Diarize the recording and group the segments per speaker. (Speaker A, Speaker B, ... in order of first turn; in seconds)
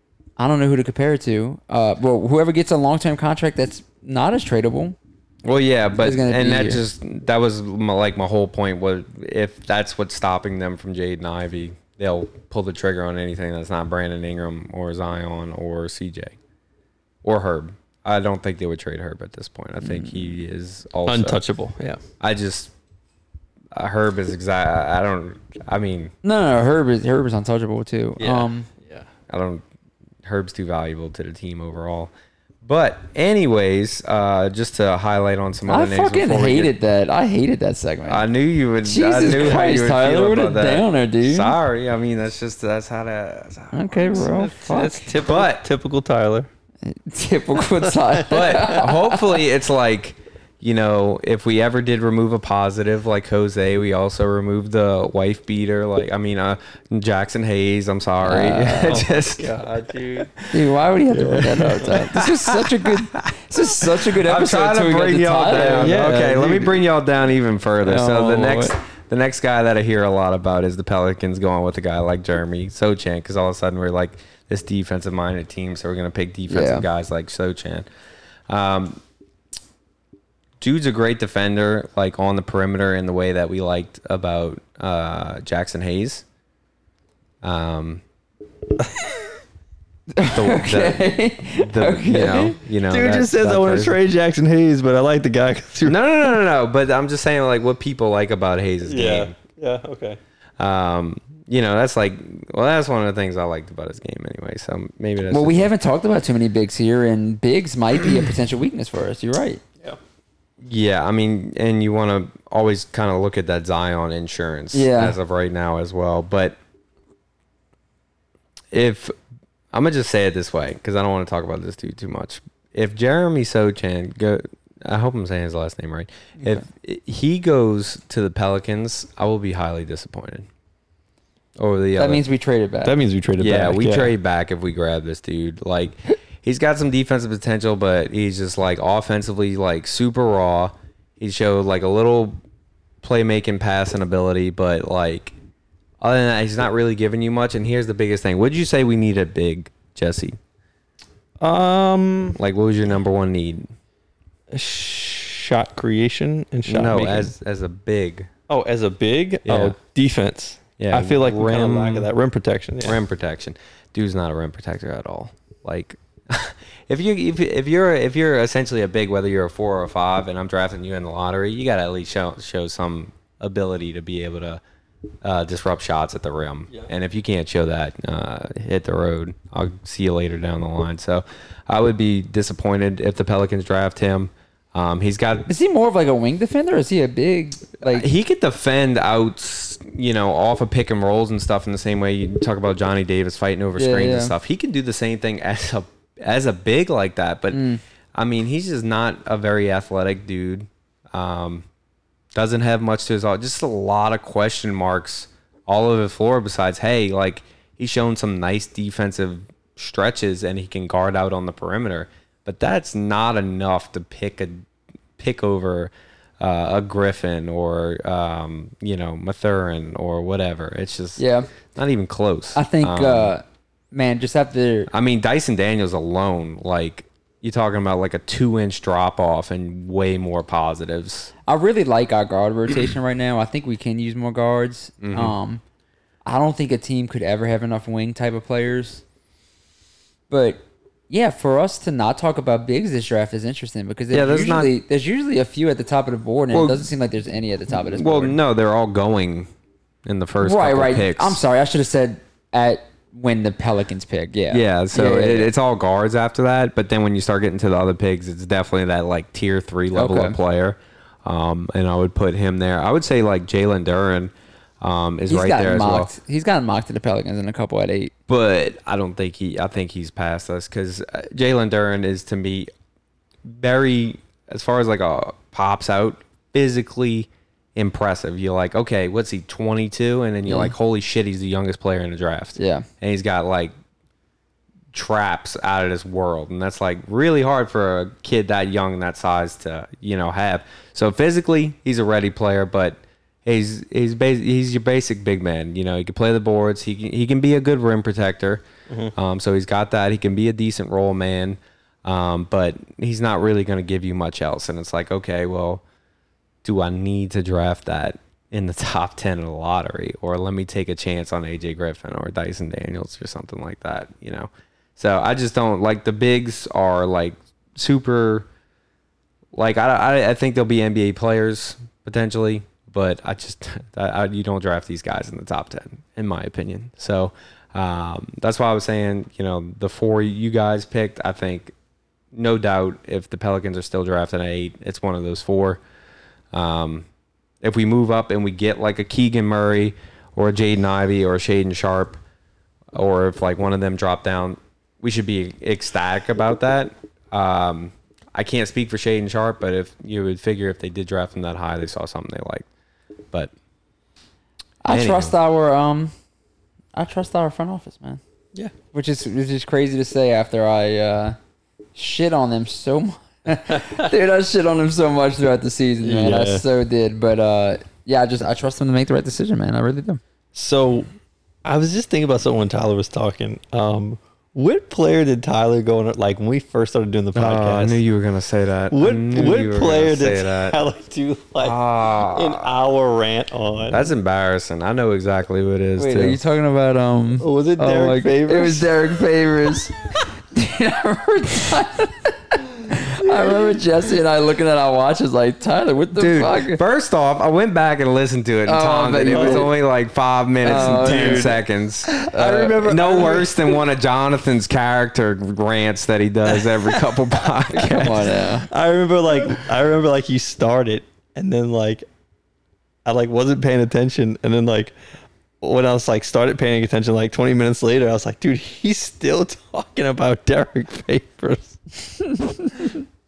Speaker A: 0.4-5.0, 6.0-6.8, 19.8-20.3, 26.2-28.7, 35.7-38.2, 38.8-41.5, 43.7-45.1, 46.8-49.4, 58.2-59.0, 60.5-66.0, 67.8-68.8, 76.5-76.8, 90.1-92.6, 105.3-109.6, 114.7-115.2, 132.0-132.9, 185.5-188.1, 193.8-194.3, 197.5-197.8, 221.2-221.5, 222.5-224.9, 231.4-235.6, 236.2-239.0, 240.3-248.4, 250.4-255.5, 259.9-260.4, 265.3-268.1, 280.4-280.7, 282.6-282.9, 354.8-356.1, 356.9-358.2, 358.9-361.4, 361.9-370.2, 386.0-396.8, 398.6-399.7, 400.6-401.5, 402.1-403.3, 407.7-408.7, 422.3-422.9
Speaker B: 5.4-16.4, 17.2-21.4, 22.2-22.7, 23.7-26.1, 29.3-29.6, 30.2-32.1, 32.6-36.7, 38.1-44.3, 45.2-45.6, 48.3-59.6, 62.1-63.2, 63.8-77.8, 78.5-79.0, 80.6-86.2, 87.4-88.0, 90.3-94.0, 95.8-99.3, 100.6-105.7, 110.6-116.6, 118.7-119.1, 119.7-130.5, 131.6-132.2, 133.4-142.4, 143.0-145.3, 146.0-150.4, 152.3-153.7, 156.7-158.3, 159.4-159.8, 160.8-162.1, 162.8-174.6, 175.2-185.5, 187.8-201.7, 202.3-223.3, 224.9-231.3, 235.0-235.4, 244.1-244.7, 246.5-246.9, 247.7-249.5, 250.1-251.4, 254.5-266.1, 268.3-272.7, 273.4-283.7, 284.9-298.6, 299.1-305.8, 306.6-318.5, 319.5-331.7, 332.3-335.8, 336.5-337.1, 337.6-342.2, 342.9-352.7, 354.9-355.3, 377.3-380.8, 381.6-382.7, 383.9-386.4, 396.1-408.3
Speaker C: 21.1-22.0, 28.2-29.1, 39.3-39.6, 44.1-46.5, 47.8-48.6, 58.9-60.5, 61.1-62.1, 65.8-66.8, 92.9-96.0, 98.8-100.2, 132.8-134.1, 151.4-152.4, 154.5-157.3, 158.5-163.0, 366.0-366.6, 370.5-371.1, 371.6-378.0, 378.9-384.0, 387.4-388.9, 393.4-393.6, 399.3-399.6, 400.7-401.6, 402.1-403.7, 406.6-407.0, 408.1-412.0, 413.1-414.9, 415.6-422.0